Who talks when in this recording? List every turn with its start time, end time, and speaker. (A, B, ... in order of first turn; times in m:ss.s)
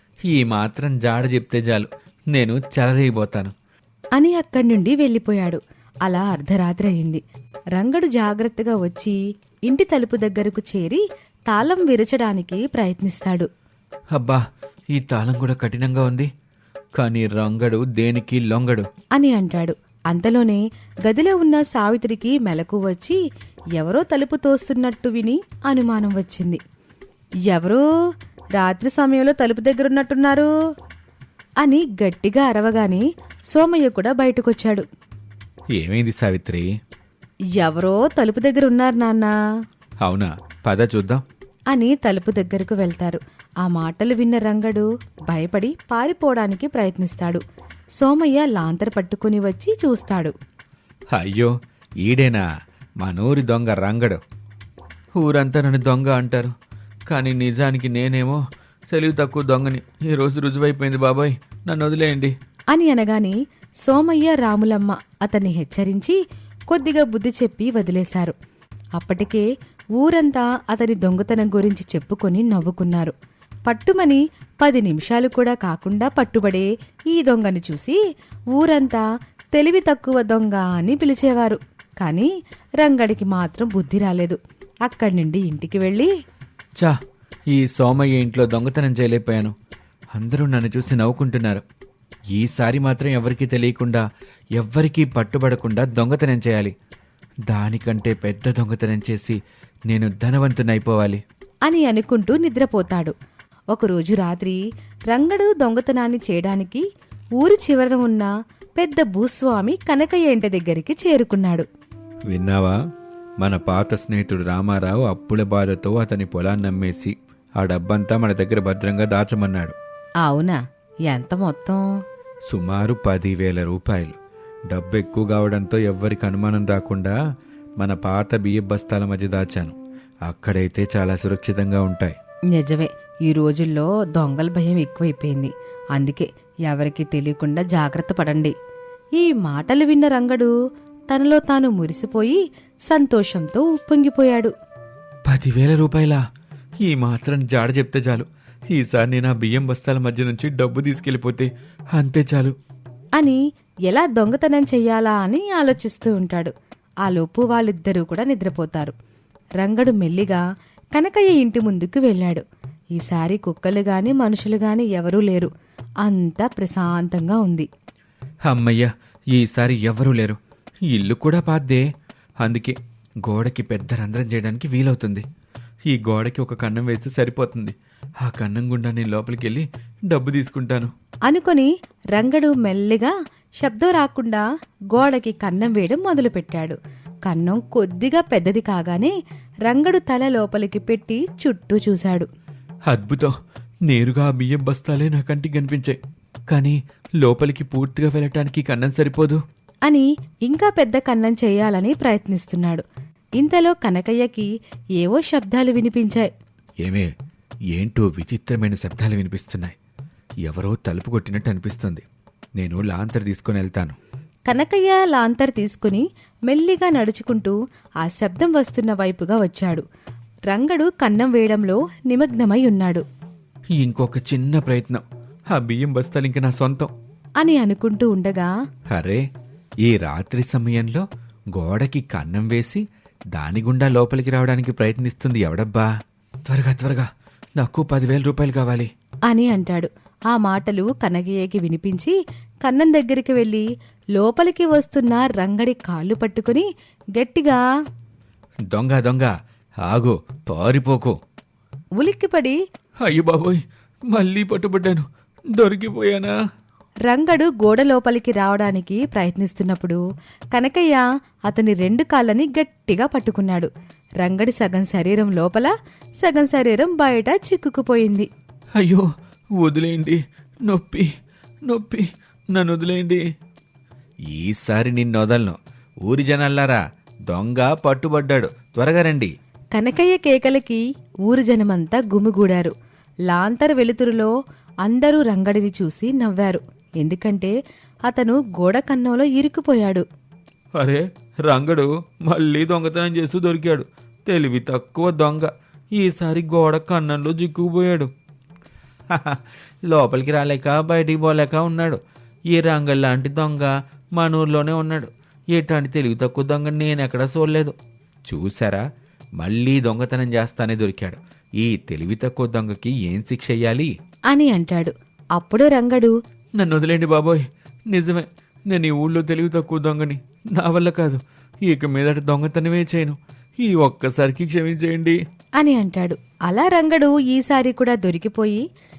0:00.3-0:03.5 A
0:04.2-0:07.2 B
0:07.8-0:09.2 B
0:09.7-0:13.5 B
0:14.2-0:16.3 A
0:17.0-0:18.9 A
0:19.2-0:23.2 B
0:23.8-0:26.6 B
0:27.5-0:27.8 B
0:28.6-0:30.5 B
0:31.6-0:34.8 B
0:35.8-0:36.7 A
0:37.6-0:39.3 B
0:40.0-0:41.2 A
0:41.7-0:47.4 B
0:48.0-0:50.3 B
0:51.1-0:52.4 A
0:53.0-0:54.2 A
0:55.2-0:56.5 A
0:57.1-1:02.3 A
1:02.7-1:06.2 B
1:06.7-1:08.3 B
1:09.0-1:13.1 B
1:13.6-1:18.0 B
1:18.5-1:19.0 B
1:19.5-1:22.3 B
1:22.8-1:26.1 B
1:27.5-1:29.5 A
1:30.1-1:31.6 A
1:32.3-1:34.0 A
1:34.6-1:36.7 A
1:37.5-1:39.4 A
1:39.9-1:41.2 A
1:41.6-1:43.1 B
1:43.7-1:46.8 B
1:47.4-1:51.6 B
1:52.3-1:52.8 A
1:53.4-1:59.7 A
2:00.2-2:01.9 B
2:02.5-2:04.2 A
2:04.7-2:07.1 A
2:07.8-2:09.8 A
2:10.3-2:12.1 A
2:12.5-2:18.5 B
2:19.2-2:20.5 B
2:21.1-2:22.4 B
2:22.9-2:24.5 B
2:25.2-2:26.2 A
2:26.8-2:32.6 A
2:33.2-2:36.5 B
2:37.0-2:38.9 B
2:39.6-2:40.4 B
2:40.9-2:42.4 B
2:43.0-2:45.5 B
2:46.0-2:47.7 B
2:48.4-2:50.4 A
2:50.9-2:51.8 A
2:52.4-2:55.2 A
2:55.9-3:00.9 A
3:01.3-3:09.1 B
3:09.7-3:12.3 B
3:12.9-3:13.4 A
3:13.9-3:19.4 A
3:19.9-3:22.8 B
3:23.4-3:26.3 B
3:26.8-3:27.1 A
3:27.7-3:29.7 A
3:30.4-3:32.0 A
3:32.6-3:34.0 A
3:34.5-3:39.8 B
3:40.5-3:43.0 B
3:43.8-3:46.9 A
3:47.4-3:48.5 B
3:48.9-3:49.2 A
3:49.8-3:52.8 A
3:53.3-3:55.9 A
3:56.4-3:57.1 A
3:57.6-3:58.9 A
3:59.3-4:03.6 B
4:04.2-4:07.6 B
4:08.7-4:09.3 A
4:09.8-4:11.2 A
4:12.0-4:12.6 B
4:13.0-4:16.3 A
4:17.1-4:20.0 B
4:20.5-4:23.7 B
4:24.2-4:28.3 B
4:28.8-4:29.0 A
4:29.6-4:31.1 A
4:31.7-4:33.2 A
4:34.3-4:39.3 A
4:39.7-4:42.7 B
4:43.3-4:44.3 B
4:44.8-4:47.5 B
4:48.1-4:50.0 B
4:50.8-4:58.1 A
4:59.1-5:08.8 A
5:09.4-5:13.9 A
5:14.3-5:16.1 B
5:16.6-5:25.2 A
5:25.6-5:28.6 B